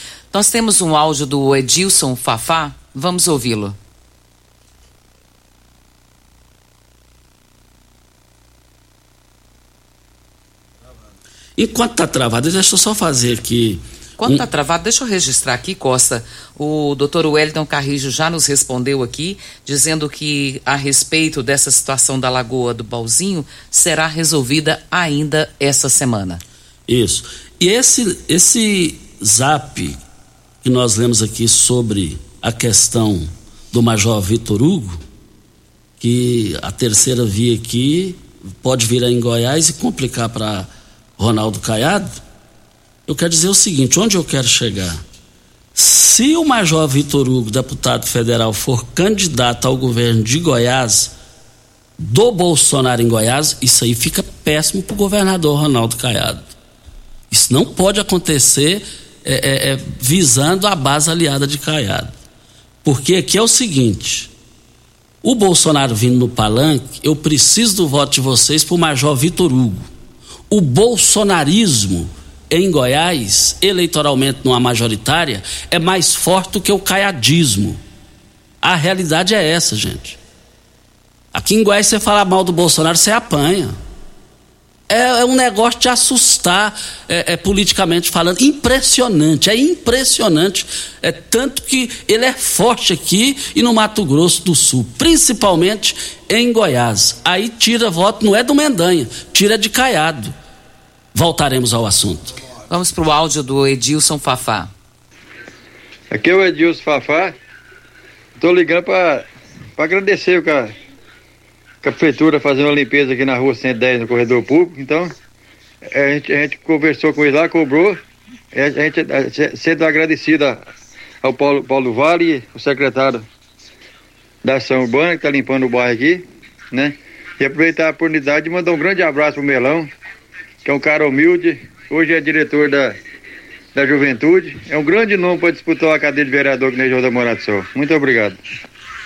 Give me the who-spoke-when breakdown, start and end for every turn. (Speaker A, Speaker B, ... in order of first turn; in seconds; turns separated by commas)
Speaker A: 0.3-3.8, Speaker B: 11.6-14.4, Speaker A: 14.2-26.4, Speaker B: 26.9-30.0, Speaker B: 30.6-35.0, Speaker B: 36.0-42.2, Speaker B: 43.1-45.0, Speaker B: 45.8-51.1, Speaker B: 52.0-56.5, Speaker B: 57.3-62.1, Speaker B: 62.8-64.3, Speaker B: 65.2-69.9, Speaker B: 70.5-77.8, Speaker B: 78.6-80.2, Speaker B: 81.3-83.8, Speaker B: 84.9-100.3, Speaker B: 101.1-102.3, Speaker A: 102.7-104.7, Speaker C: 106.1-107.4, Speaker C: 108.4-109.3, Speaker C: 109.8-110.7, Speaker C: 111.8-115.1, Speaker C: 115.8-118.0, Speaker C: 118.5-120.6, Speaker C: 121.2-123.2, Speaker C: 124.4-129.9, Speaker C: 130.7-133.0, Speaker C: 133.8-138.4